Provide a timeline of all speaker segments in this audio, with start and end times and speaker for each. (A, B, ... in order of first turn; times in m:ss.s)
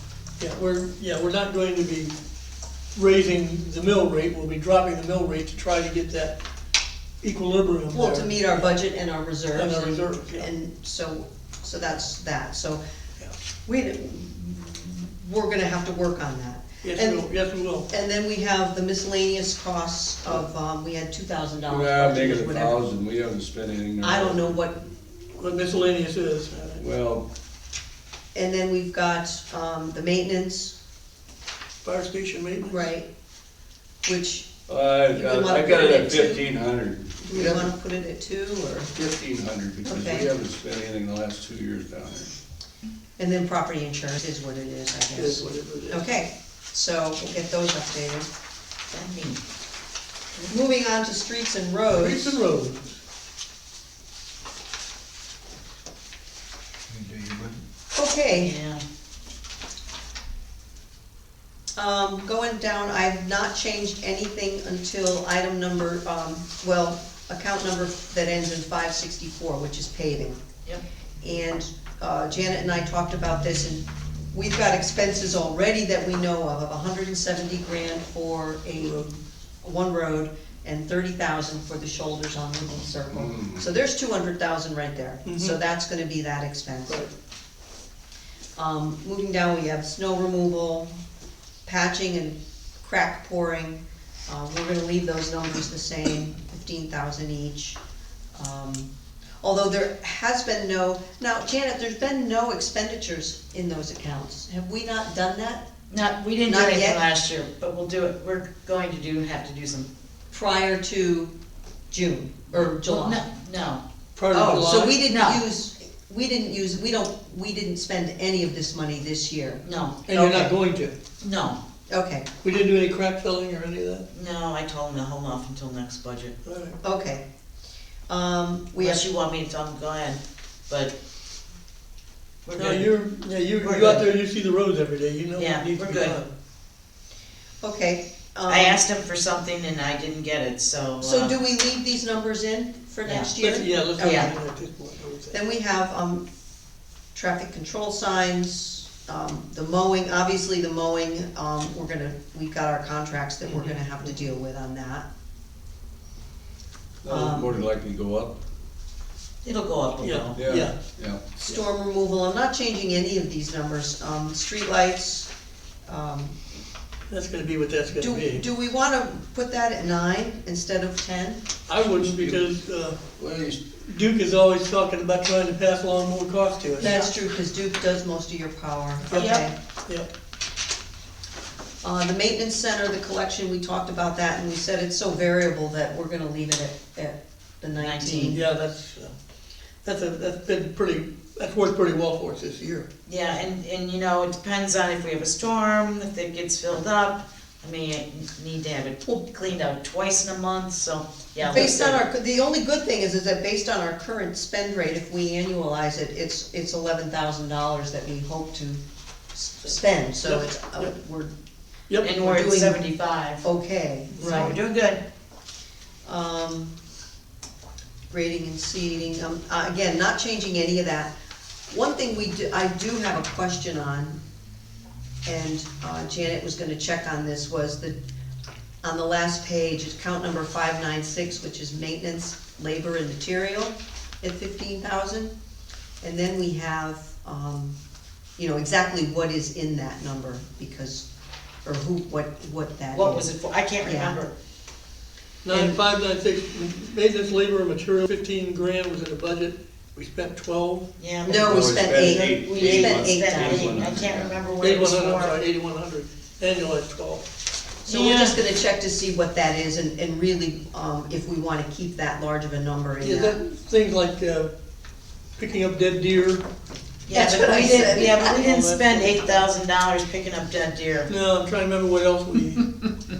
0:00.4-0:02.2 A
0:02.9-0:06.4 A
0:07.2-0:08.6 A
0:07.9-0:12.8 B
0:09.5-0:10.5 A
0:13.6-0:17.2 B
0:16.8-0:17.9 A
0:17.9-0:22.8 B
0:21.7-0:24.6 C
0:24.0-0:24.8 B
0:25.4-0:26.8 A
0:26.8-0:27.2 C
0:28.3-0:30.7 B
0:31.8-0:32.8 A
0:32.7-0:33.1 B
0:34.0-0:34.5 B
0:34.7-0:37.7 C
0:35.1-0:36.5 B
0:37.2-0:38.9 B
0:38.9-0:42.3 C
0:39.8-0:40.3 B
0:43.2-0:48.3 B
0:45.1-0:46.1 A
0:48.9-0:49.4 D
0:50.4-0:52.4 B
0:51.9-0:53.0 A
0:57.9-0:58.6 B
0:58.4-0:58.8 D
1:01.8-1:10.4 B
1:11.2-1:19.1 B
1:18.8-1:19.0 A
1:19.6-1:27.0 B
1:23.1-1:23.6 C
1:25.2-1:25.6 A
1:28.6-1:30.9 B
1:31.6-1:37.8 B
1:38.3-1:38.9 B
1:39.4-1:45.6 B
1:45.9-1:49.9 D
1:46.4-1:47.0 B
1:50.3-1:51.3 B
1:51.9-1:53.2 B
1:52.5-1:55.4 D
1:54.2-1:55.0 A
1:54.4-2:00.5 B
1:59.6-2:00.0 D
2:00.1-2:00.9 A
2:01.2-2:01.6 D
2:01.9-2:02.3 B
2:02.4-2:04.1 A
2:04.1-2:06.3 D
2:06.4-2:06.8 A
2:06.8-2:07.2 B
2:08.1-2:09.0 B
2:08.8-2:10.9 D
2:12.4-2:12.9 D
2:12.6-2:16.2 A
2:13.6-2:14.1 D
2:15.4-2:16.2 D
2:17.6-2:18.8 B
2:18.5-2:21.3 D
2:21.0-2:24.3 B
2:23.0-2:23.3 D
2:23.4-2:25.4 A
2:24.0-2:24.3 D
2:25.3-2:26.2 B
2:27.1-2:35.0 B
2:33.4-2:34.1 A
2:37.0-2:38.3 C
2:37.0-2:37.5 B
2:39.4-2:40.4 D
2:40.0-2:40.8 A
2:40.4-2:41.2 C
2:41.4-2:45.3 B
2:45.9-2:46.4 B
2:47.1-2:48.4 A
2:48.0-2:51.4 B
2:51.7-2:53.0 A
2:51.8-2:52.5 C
2:53.2-2:53.6 C
2:53.7-2:57.1 A
2:56.8-2:59.5 B
2:59.1-3:00.1 A
2:59.1-2:59.4 D
3:01.8-3:08.4 B
3:07.8-3:08.4 D
3:08.2-3:09.1 A
3:09.8-3:12.9 A
3:13.0-3:21.9 D
3:21.4-3:22.0 A
3:21.4-3:28.8 B
3:29.3-3:31.3 B
3:29.7-3:30.9 A
3:32.0-3:33.4 D
3:32.0-3:32.8 B
3:33.4-3:34.6 B
3:34.2-3:35.0 D
3:34.2-3:34.4 A
3:36.0-3:36.7 B
3:38.1-3:41.1 B
3:41.7-3:44.2 B
3:45.2-3:48.0 B
3:48.8-3:55.3 B
3:56.0-3:57.8 B
3:58.4-4:01.1 B
4:01.6-4:04.2 B
4:02.9-4:04.3 D
4:05.4-4:10.9 A
4:05.5-4:05.8 B
4:11.0-4:15.4 D
4:11.2-4:13.8 B
4:11.4-4:14.4 C
4:14.6-4:17.3 A
4:17.8-4:23.4 B
4:17.9-4:18.4 D
4:23.0-4:24.5 A
4:25.4-4:26.4 A
4:27.0-4:31.1 D
4:27.1-4:28.3 B
4:27.6-4:29.4 A
4:31.1-4:32.8 A